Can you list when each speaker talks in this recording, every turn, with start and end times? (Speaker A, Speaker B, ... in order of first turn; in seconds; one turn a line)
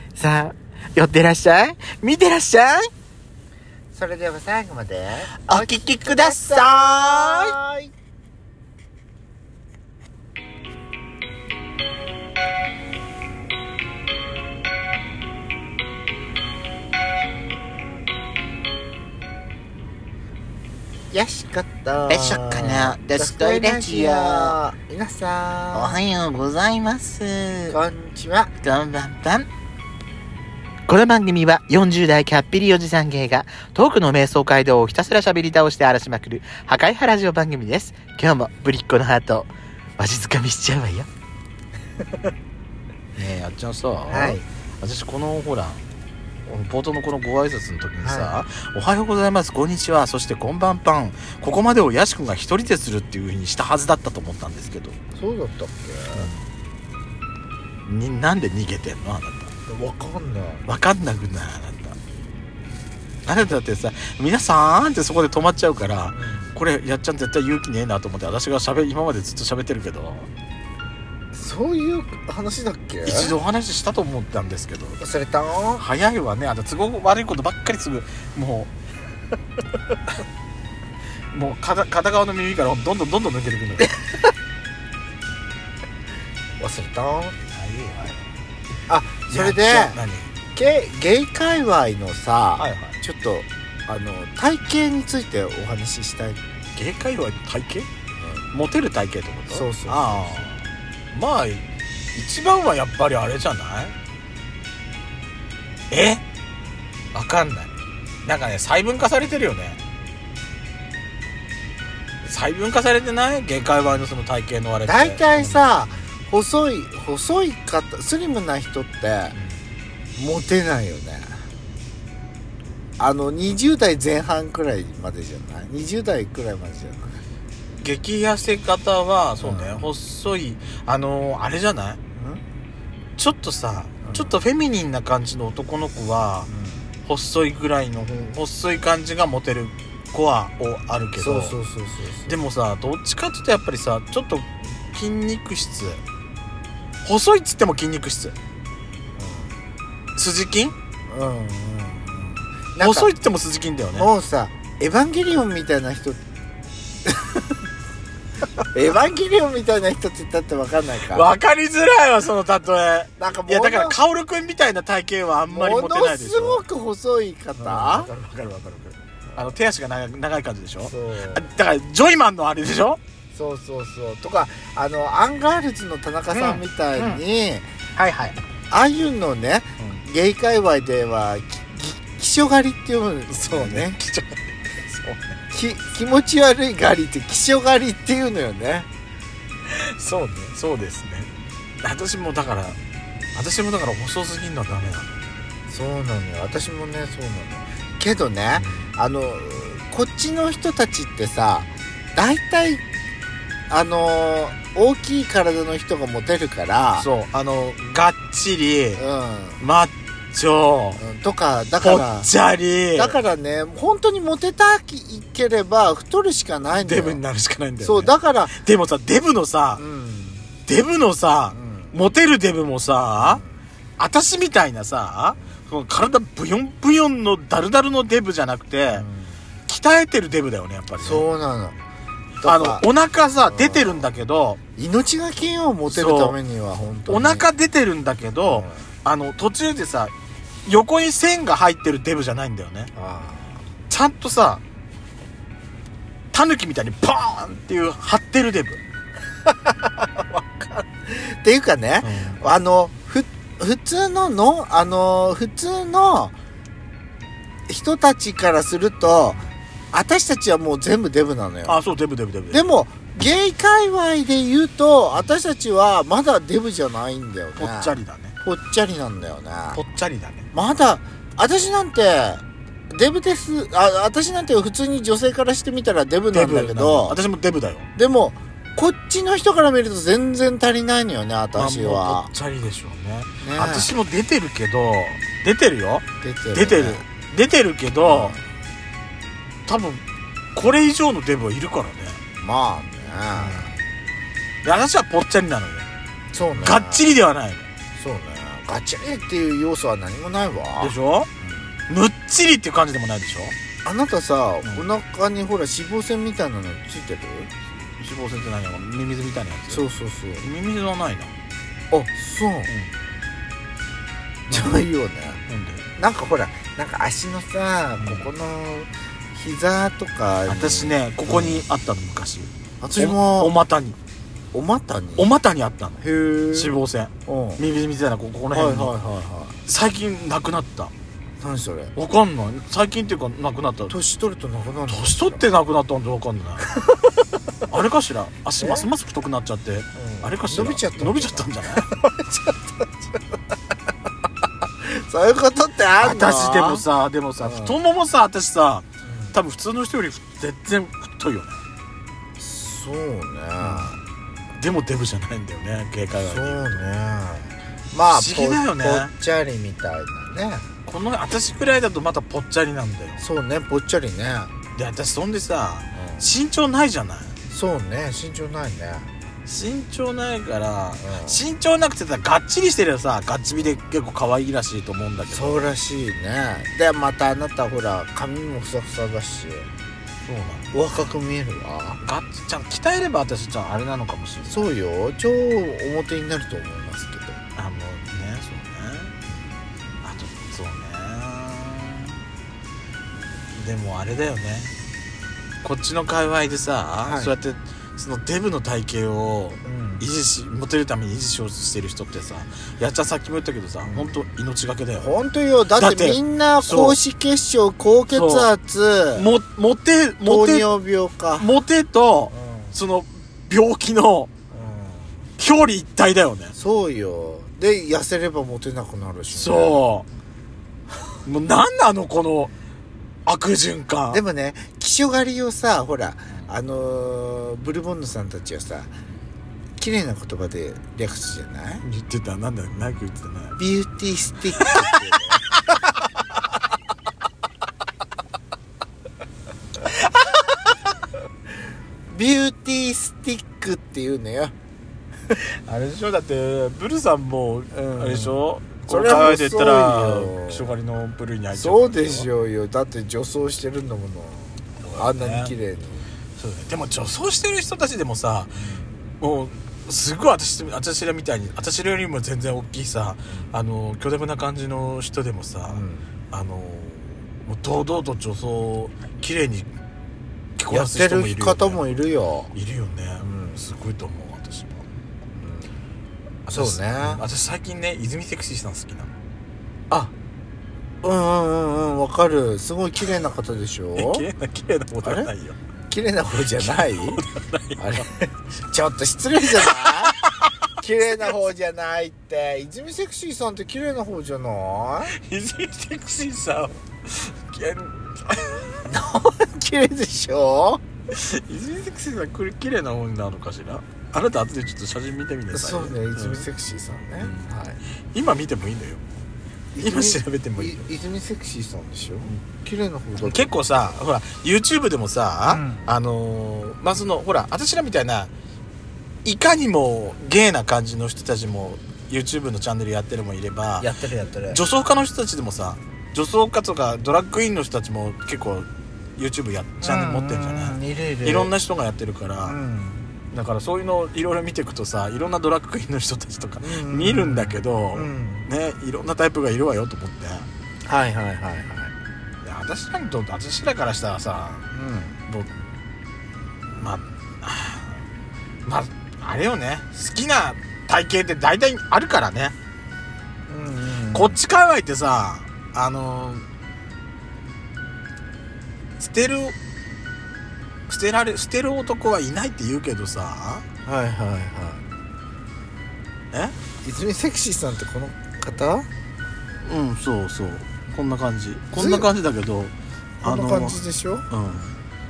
Speaker A: 0.1-2.9
Speaker B: 3.9-7.9
Speaker A: 5.4-7.5
Speaker B: 21.1-26.0
Speaker A: 22.1-24.6
Speaker A: 25.7-27.8
Speaker B: 27.7-28.5
Speaker A: 28.6-29.5
Speaker A: 30.9-41.1
Speaker C: 43.1-45.8
Speaker B: 44.1-44.4
Speaker C: 46.5-55.0
Speaker B: 48.0-48.4
Speaker B: 55.1-56.3
Speaker C: 56.1-56.4
Speaker C: 57.9-59.5
Speaker B: 59.7-60.7
Speaker C: 60.7-62.0
Speaker C: 63.2-70.3
Speaker B: 66.1-66.6
Speaker B: 71.3-73.4
Speaker C: 73.1-75.0
Speaker B: 75.0-75.9
Speaker C: 75.8-78.7
Speaker C: 81.3-83.9
Speaker B: 86.6-87.3
Speaker C: 87.5-88.2
Speaker B: 88.9-90.0
Speaker C: 89.3-90.3
Speaker B: 90.5-96.4
Speaker C: 92.6-93.0
Speaker C: 96.8-97.9
Speaker B: 98.2-98.5
Speaker C: 98.5-101.6
Speaker B: 99.5-100.5
Speaker C: 102.2-104.0
Speaker C: 105.9-106.2
Speaker C: 107.1-107.7
Speaker C: 108.2-109.8
Speaker C: 112.2-116.0
Speaker B: 114.8-119.4
Speaker B: 120.2-121.5
Speaker B: 123.0-127.2
Speaker C: 127.8-132.0
Speaker B: 129.4-129.9
Speaker B: 132.2-132.4
Speaker C: 133.2-136.5
Speaker B: 134.0-134.4
Speaker B: 136.5-136.9
Speaker C: 137.1-141.6
Speaker B: 141.2-142.4
Speaker C: 142.3-146.0
Speaker C: 147.1-148.3
Speaker B: 149.2-149.5
Speaker C: 150.2-150.8
Speaker B: 151.1-153.1
Speaker C: 152.8-154.1
Speaker B: 153.9-156.2
Speaker B: 158.7-161.3
Speaker C: 161.1-166.6
Speaker B: 163.2-164.0
Speaker B: 165.5-168.1
Speaker C: 167.6-173.0
Speaker B: 170.8-171.5
Speaker B: 173.3-177.7
Speaker C: 176.3-177.2
Speaker C: 178.0-178.4
Speaker B: 178.7-184.0
Speaker C: 183.3-185.4
Speaker B: 185.5-188.9
Speaker C: 189.7-191.3
Speaker C: 191.8-192.8
Speaker C: 193.3-195.3
Speaker B: 195.7-202.8
Speaker C: 198.6-198.9
Speaker B: 203.7-207.1
Speaker C: 207.0-209.0
Speaker B: 209.0-209.6
Speaker C: 209.6-211.0
Speaker B: 211.0-212.3
Speaker C: 211.8-213.2
Speaker B: 212.9-217.2
Speaker C: 216.7-219.8
Speaker B: 217.8-218.6
Speaker B: 219.8-220.5
Speaker C: 220.7-223.4
Speaker B: 221.5-222.1
Speaker B: 223.2-223.6
Speaker C: 224.0-229.1
Speaker B: 228.9-229.4
Speaker C: 229.7-231.3
Speaker B: 231.0-231.8
Speaker B: 232.4-232.9
Speaker C: 232.4-234.6
Speaker B: 233.5-234.1
Speaker B: 234.8-237.5
Speaker C: 235.9-236.4
Speaker C: 237.1-240.1
Speaker B: 238.5-238.9
Speaker C: 240.7-242.9
Speaker B: 242.9-243.7
Speaker C: 243.9-244.6
Speaker C: 246.3-248.8
Speaker B: 249.7-256.4
Speaker C: 252.0-252.4
Speaker B: 257.7-259.4
Speaker B: 259.9-261.8
Speaker C: 261.7-262.7
Speaker B: 262.5-269.8
Speaker C: 267.6-268.4
Speaker C: 269.7-270.5
Speaker B: 270.5-277.2
Speaker C: 276.3-277.9
Speaker B: 278.0-282.3
Speaker C: 281.5-288.4
Speaker B: 283.4-283.9
Speaker B: 286.2-287.1
Speaker B: 288.0-288.4
Speaker C: 289.7-290.0
Speaker C: 290.6-292.2
Speaker B: 292.4-293.8
Speaker C: 293.4-293.7
Speaker C: 294.6-295.9
Speaker B: 296.3-297.1
Speaker C: 296.6-297.7
Speaker B: 298.0-301.8
Speaker C: 300.8-301.3
Speaker C: 301.9-303.6
Speaker B: 303.9-307.5
Speaker C: 307.8-309.9
Speaker B: 309.7-310.5
Speaker C: 310.4-311.3
Speaker B: 311.9-312.7
Speaker B: 314.5-315.4
Speaker C: 314.5-314.8
Speaker C: 315.5-315.9
Speaker B: 316.0-321.7
Speaker C: 318.0-318.3
Speaker C: 320.5-324.0
Speaker B: 322.8-323.6
Speaker B: 324.5-325.3
Speaker C: 325.2-328.9
Speaker B: 326.0-327.6
Speaker B: 328.5-329.6
Speaker C: 329.7-330.9
Speaker B: 331.4-331.9
Speaker C: 331.9-334.0
Speaker B: 333.9-335.4
Speaker C: 334.9-336.7
Speaker B: 336.6-337.1
Speaker C: 337.7-341.9
Speaker B: 338.6-338.9
Speaker B: 340.0-342.7
Speaker B: 344.8-346.9
Speaker C: 346.0-351.6
Speaker B: 347.4-347.8
Speaker B: 349.0-349.4
Speaker B: 352.4-354.0
Speaker C: 353.6-353.9
Speaker C: 354.6-356.9
Speaker B: 356.1-360.7
Speaker C: 358.1-359.1
Speaker C: 360.9-363.2
Speaker B: 363.2-364.5
Speaker C: 364.8-367.4
Speaker B: 365.9-366.3
Speaker B: 367.5-369.1
Speaker C: 369.5-375.8
Speaker B: 371.0-371.5
Speaker B: 375.3-379.7
Speaker C: 380.2-381.1
Speaker B: 380.7-382.0
Speaker C: 382.0-384.7
Speaker B: 384.5-387.4
Speaker C: 387.6-389.1
Speaker C: 390.0-392.2
Speaker C: 393.6-394.7
Speaker C: 395.6-407.0
Speaker B: 397.1-397.3
Speaker B: 399.6-400.1
Speaker B: 403.9-404.3
Speaker B: 405.0-409.3
Speaker C: 408.1-408.5
Speaker C: 409.2-410.7
Speaker B: 410.2-411.5
Speaker C: 411.4-414.3
Speaker B: 412.3-412.8
Speaker B: 414.5-415.3
Speaker C: 415.4-416.6
Speaker B: 416.6-419.8
Speaker C: 419.3-420.1
Speaker C: 421.2-422.5
Speaker C: 423.3-424.2
Speaker B: 424.1-428.9
Speaker B: 429.8-431.8
Speaker C: 431.8-433.6
Speaker B: 433.6-435.5
Speaker C: 434.6-434.9
Speaker B: 442.1-444.5
Speaker C: 445.3-452.3
Speaker B: 447.7-450.7
Speaker B: 451.5-456.1
Speaker C: 454.8-455.6
Speaker C: 456.4-458.6
Speaker B: 458.6-459.1
Speaker C: 459.2-469.7
Speaker B: 465.7-466.1
Speaker C: 470.6-471.8
Speaker B: 470.7-472.5
Speaker C: 472.5-474.9
Speaker B: 473.2-473.6
Speaker B: 475.4-475.7
Speaker C: 476.4-479.1
Speaker B: 476.5-477.2
Speaker B: 481.0-484.3
Speaker C: 484.0-485.6
Speaker B: 485.0-485.3
Speaker B: 485.9-487.2
Speaker C: 486.6-488.1
Speaker B: 487.8-490.2
Speaker C: 489.6-490.3
Speaker B: 490.8-495.1
Speaker C: 495.1-498.9
Speaker B: 498.9-500.8
Speaker C: 501.1-506.4
Speaker B: 505.5-507.8
Speaker C: 507.2-507.5
Speaker C: 508.1-509.0
Speaker B: 509.8-514.0
Speaker C: 509.8-510.9
Speaker C: 513.2-518.3
Speaker B: 515.5-516.0
Speaker C: 519.2-523.9
Speaker B: 523.8-524.6
Speaker C: 524.5-532.6
Speaker B: 529.8-531.5
Speaker B: 532.4-533.1
Speaker C: 533.3-540.5
Speaker B: 536.6-538.5
Speaker B: 540.9-541.9
Speaker C: 542.4-544.7
Speaker B: 544.7-545.2
Speaker C: 546.7-548.0
Speaker C: 548.7-552.5
Speaker B: 553.5-554.4
Speaker C: 554.1-556.4
Speaker C: 559.0-559.6
Speaker C: 560.9-563.6
Speaker B: 563.9-564.8
Speaker B: 566.8-568.9
Speaker C: 569.6-574.7
Speaker B: 571.7-572.1
Speaker B: 573.2-574.3